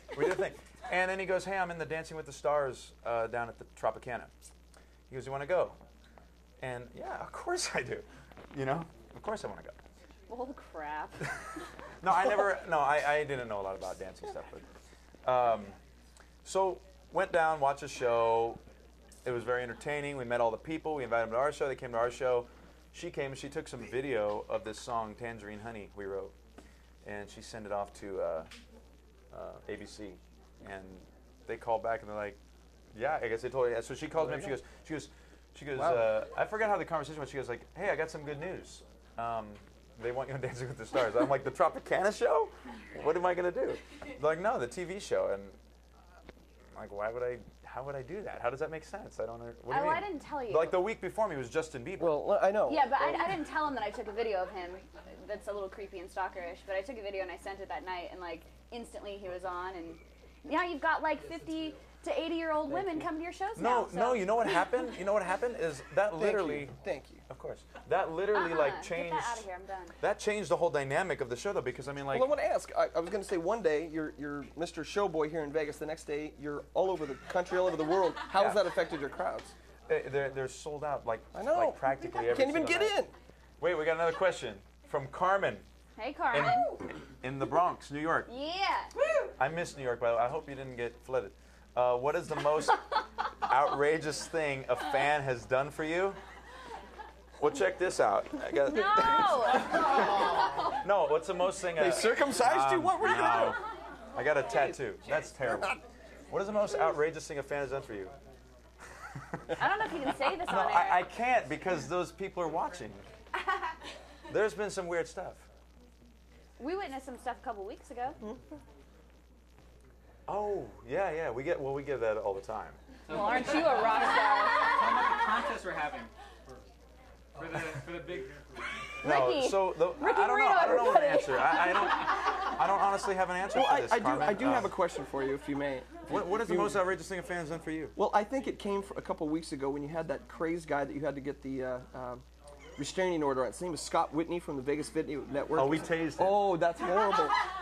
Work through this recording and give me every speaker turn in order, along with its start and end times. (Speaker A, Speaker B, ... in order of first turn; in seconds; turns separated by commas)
Speaker A: 0.1-4.3, Speaker A: 5.1-5.8, Speaker A: 6.6-9.8, Speaker B: 10.3-11.2, Speaker A: 12.0-14.7, Speaker A: 15.2-15.8, Speaker A: 16.4-18.6, Speaker A: 19.2-26.3, Speaker A: 27.0-28.5, Speaker A: 29.3-32.4, Speaker A: 32.9-45.6, Speaker C: 34.1-34.6, Speaker C: 35.7-36.2, Speaker A: 46.7-52.2, Speaker B: 49.7-50.8, Speaker C: 52.0-53.4, Speaker B: 52.7-64.7, Speaker C: 62.7-63.1, Speaker A: 63.5-66.7, Speaker C: 66.1-67.2, Speaker A: 67.3-69.5, Speaker B: 68.3-70.0, Speaker A: 70.0-72.3, Speaker C: 72.1-79.5, Speaker A: 78.3-78.6, Speaker A: 79.9-83.0, Speaker C: 81.3-83.1, Speaker A: 83.6-85.6, Speaker B: 86.0-86.7, Speaker A: 86.3-86.7, Speaker A: 87.2-88.3, Speaker B: 88.3-88.9, Speaker A: 89.4-92.8, Speaker A: 93.5-96.2, Speaker A: 97.4-103.6, Speaker B: 98.7-99.8, Speaker C: 101.8-103.6, Speaker A: 104.1-108.1, Speaker C: 104.4-105.8, Speaker B: 109.6-111.1, Speaker A: 110.4-113.1, Speaker A: 114.3-115.5, Speaker B: 116.6-118.2, Speaker A: 120.3-122.8, Speaker B: 123.1-124.9, Speaker D: 123.1-123.9, Speaker D: 124.6-126.1, Speaker D: 127.4-128.3, Speaker B: 129.0-132.0, Speaker A: 129.0-134.7, Speaker C: 133.5-136.9, Speaker A: 136.1-137.9, Speaker C: 137.9-142.2, Speaker C: 142.8-147.4, Speaker A: 145.5-146.6